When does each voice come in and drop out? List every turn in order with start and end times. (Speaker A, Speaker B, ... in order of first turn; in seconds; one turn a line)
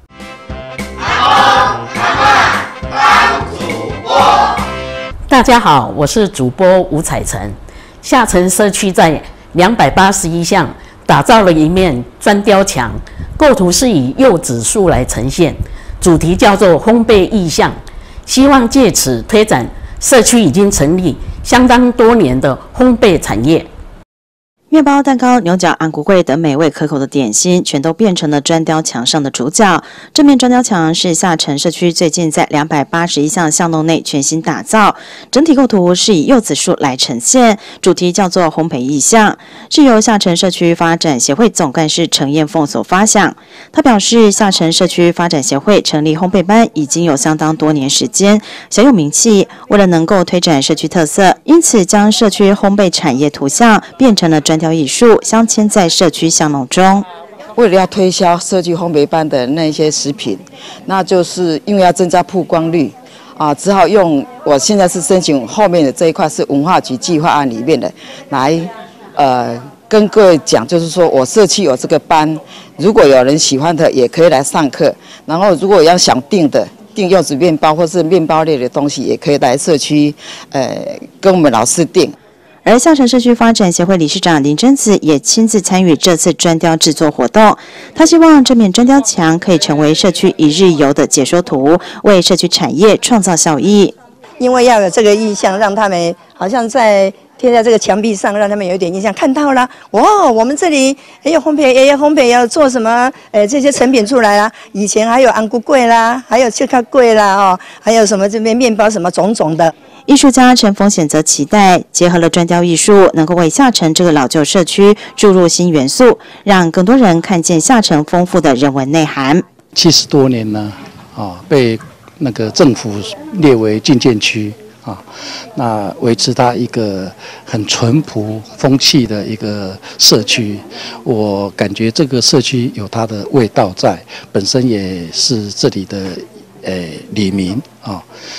Speaker A: 5.3-23.7
Speaker B: 24.7-57.1
Speaker C: 57.6-82.1
Speaker B: 82.6-94.0
Speaker D: 94.4-109.7
Speaker B: 110.1-119.4
Speaker E: 119.7-125.0
Speaker E: 125.5-138.0